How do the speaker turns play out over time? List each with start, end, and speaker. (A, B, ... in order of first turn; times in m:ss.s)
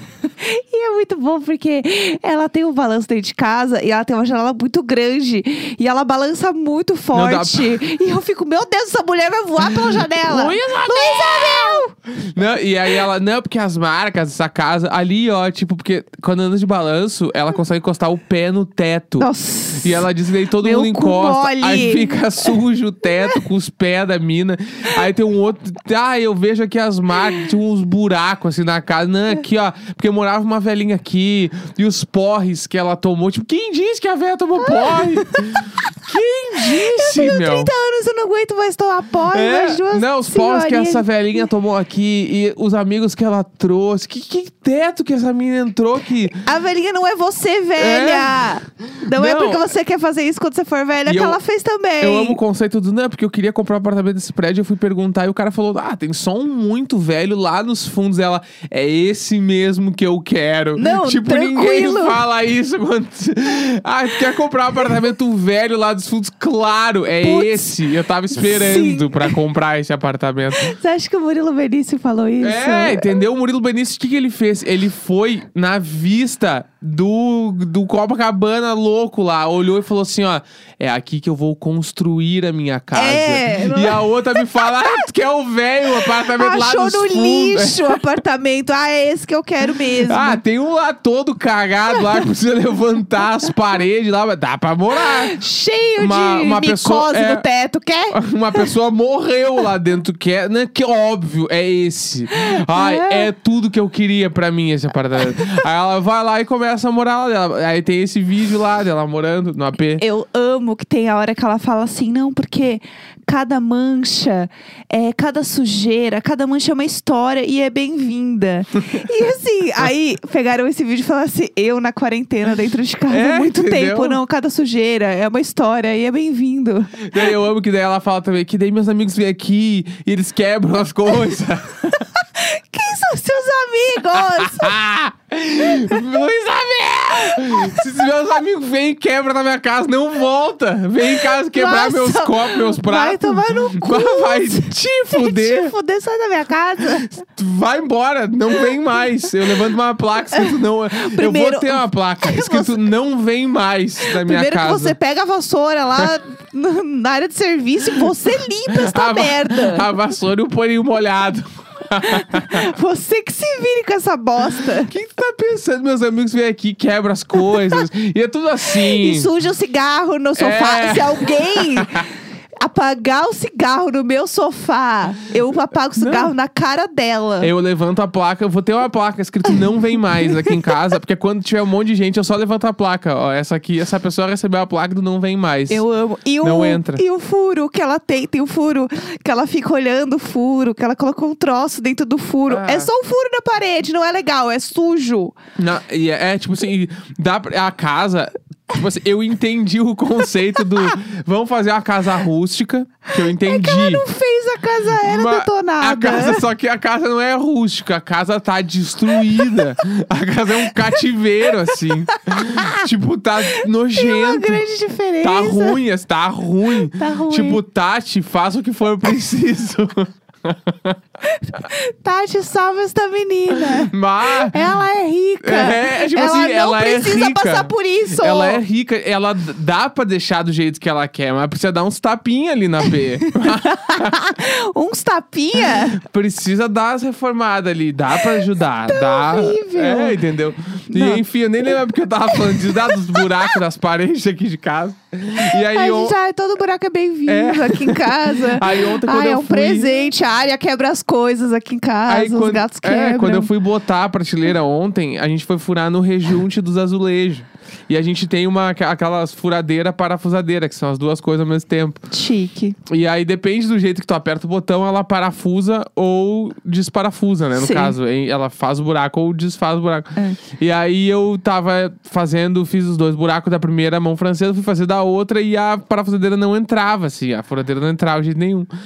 0:00.4-0:11.9 A
0:07.1-0:07.8 B
0:09.6-0:37.7 B
0:19.2-0:20.0 A
0:20.6-0:22.6 A
0:34.6-0:35.7 A
0:36.6-0:41.1 A
0:39.3-0:46.4 B
0:46.4-0:52.4 A
0:47.8-0:49.7 B
0:51.0-0:51.4 B
0:52.0-1:10.7 B
1:00.8-1:02.2 A
1:07.2-1:07.7 A
1:08.3-1:09.4 A
1:10.5-1:13.1 A
1:12.4-1:28.0 B
1:22.9-1:25.1 A
1:25.9-1:30.4 A
1:30.0-1:35.4 B
1:35.0-1:38.7 A
1:36.0-1:37.4 B
1:38.1-1:50.0 B
1:42.3-1:43.3 A
1:50.0-2:07.3 A
2:03.1-2:04.2 B
2:07.0-2:12.0 B
2:11.9-2:14.7 A
2:14.1-2:25.7 B
2:15.7-2:16.0 A
2:17.3-2:17.8 A
2:21.1-2:27.1 A
2:26.9-2:35.0 B
2:30.3-2:32.8 A
2:34.0-2:39.9 A
2:38.7-2:42.6 B
2:42.0-2:44.9 A
2:44.9-2:49.3 B
2:47.4-2:47.8 A
2:48.7-2:52.1 A
2:50.4-2:52.0 B
2:52.6-2:57.5 A
2:56.0-2:56.3 B
2:57.4-3:05.8 B
3:00.3-3:00.6 A
3:05.7-3:15.4 A
3:06.4-3:07.0 B
3:12.5-3:12.9 B
3:15.6-3:24.0 B
3:23.2-3:26.4 A
3:25.0-3:34.6 B
3:30.6-3:32.9 A
3:33.5-3:35.8 A
3:35.2-3:41.0 B
3:36.9-3:37.6 A
3:41.3-3:48.6 A
3:43.6-3:44.6 B
3:45.4-3:54.2 B
3:53.4-3:56.0 A
3:55.9-4:06.1 B
3:58.1-4:00.2 A
4:00.9-4:01.2 A
4:02.3-4:03.3 A
4:05.4-4:13.5 A
4:07.3-4:10.1 B
4:12.1-4:22.0 B
4:22.1-4:22.8 A
4:22.9-4:38.7 B
4:27.6-4:27.9 A